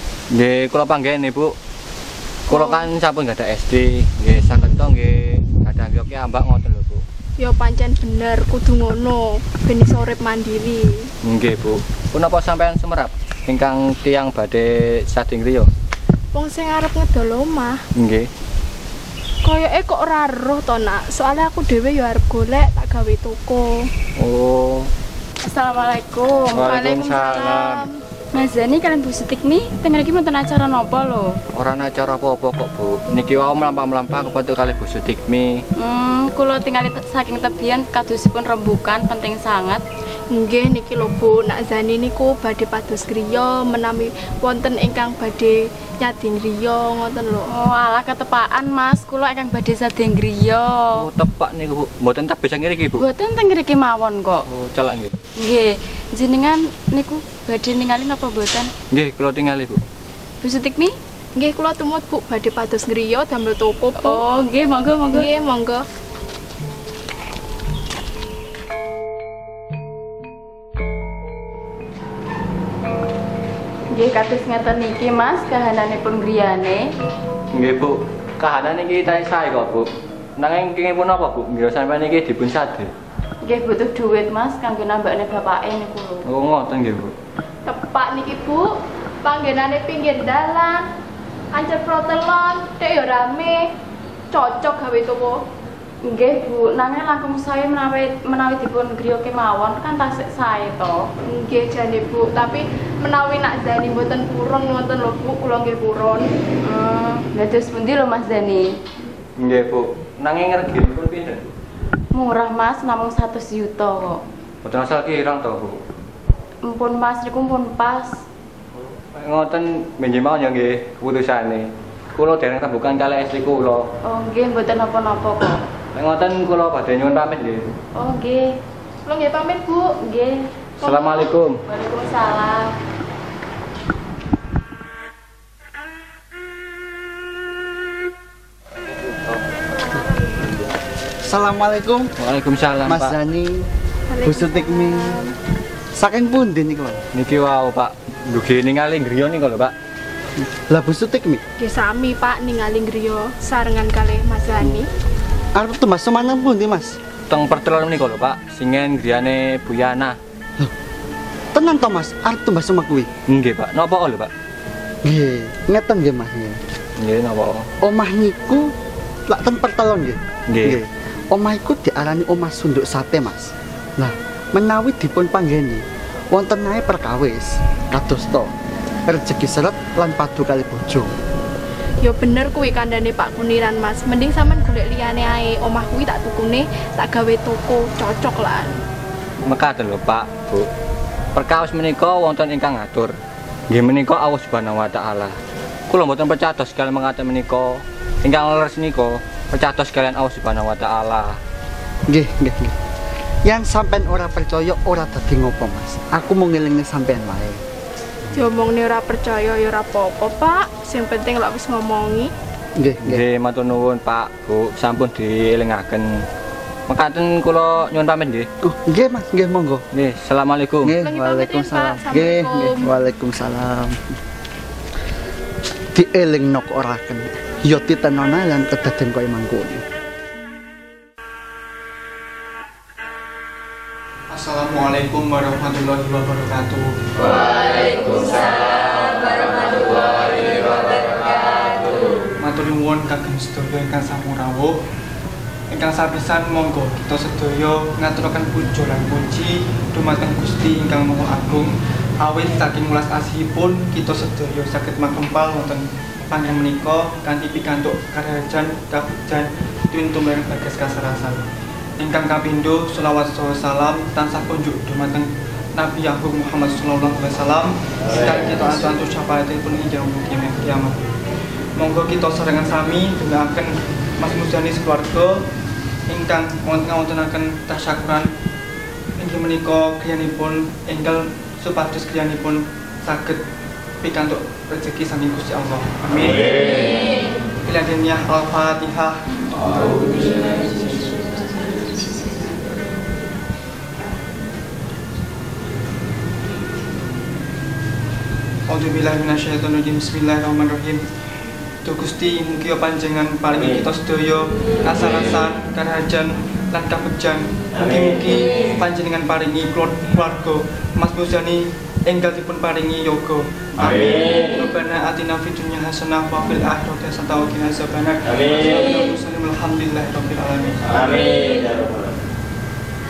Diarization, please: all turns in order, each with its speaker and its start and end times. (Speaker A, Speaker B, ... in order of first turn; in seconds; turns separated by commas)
Speaker A: 0.3-1.6, Speaker A: 2.5-7.0, Speaker B: 2.5-2.8, Speaker B: 7.4-11.1, Speaker A: 11.2-15.7, Speaker B: 16.3-17.8, Speaker A: 17.9-18.3, Speaker B: 19.4-23.9, Speaker A: 24.2-24.9, Speaker C: 25.4-26.8, Speaker A: 26.5-27.9, Speaker B: 26.6-27.9, Speaker C: 28.3-31.4, Speaker A: 31.5-35.6, Speaker C: 35.8-39.8, Speaker B: 40.3-47.5, Speaker C: 47.5-51.0, Speaker A: 51.0-53.0, Speaker C: 52.9-54.5, Speaker A: 54.5-55.1, Speaker C: 55.4-58.7, Speaker A: 58.9-59.8, Speaker C: 60.4-60.9, Speaker B: 61.4-64.2, Speaker C: 64.0-65.3, Speaker B: 65.1-65.8, Speaker C: 73.9-76.9, Speaker A: 77.5-82.9, Speaker C: 83.4-86.2, Speaker A: 86.2-87.1, Speaker B: 87.7-90.9, Speaker B: 91.5-93.7, Speaker B: 94.3-95.4, Speaker C: 96.0-101.1, Speaker B: 101.3-106.3, Speaker C: 106.6-108.8, Speaker A: 109.4-111.5, Speaker C: 112.1-114.2, Speaker A: 114.6-115.8, Speaker C: 116.6-118.2, Speaker A: 119.0-123.9, Speaker C: 124.0-125.6, Speaker A: 125.9-127.8, Speaker C: 127.9-128.6, Speaker B: 129.1-129.9, Speaker C: 129.9-131.1, Speaker A: 130.8-131.6, Speaker C: 131.7-132.7, Speaker A: 138.9-139.4, Speaker C: 139.9-140.2, Speaker D: 141.2-142.1, Speaker A: 142.2-143.1, Speaker D: 142.9-143.7, Speaker B: 144.1-145.3, Speaker D: 144.2-145.2, Speaker D: 145.9-147.0, Speaker A: 147.1-149.7, Speaker D: 150.4-151.4, Speaker B: 151.6-154.9, Speaker D: 155.5-157.0, Speaker A: 157.3-160.2, Speaker D: 161.5-163.1, Speaker A: 163.3-164.3, Speaker D: 165.0-166.6, Speaker A: 167.0-167.7, Speaker D: 167.8-168.7, Speaker D: 169.3-178.5, Speaker A: 170.5-170.8, Speaker D: 179.1-181.1, Speaker B: 182.0-188.8, Speaker A: 189.5-190.7, Speaker A: 191.3-193.2, Speaker A: 193.7-195.4, Speaker A: 195.9-201.4, Speaker D: 202.1-202.8, Speaker D: 203.4-207.6, Speaker B: 208.3-212.3, Speaker D: 212.8-213.2, Speaker A: 213.0-216.2, Speaker A: 216.9-218.5, Speaker D: 218.6-219.8, Speaker A: 219.9-220.9, Speaker D: 220.8-224.1, Speaker B: 221.0-222.9, Speaker D: 225.9-229.8, Speaker E: 234.3-237.0, Speaker A: 237.2-242.3, Speaker E: 242.4-244.8, Speaker E: 245.7-261.5, Speaker E: 262.0-271.0, Speaker E: 271.8-275.5, Speaker E: 276.1-278.3, Speaker E: 279.2-283.4, Speaker E: 284.0-289.2, Speaker E: 298.7-301.0, Speaker E: 301.8-321.2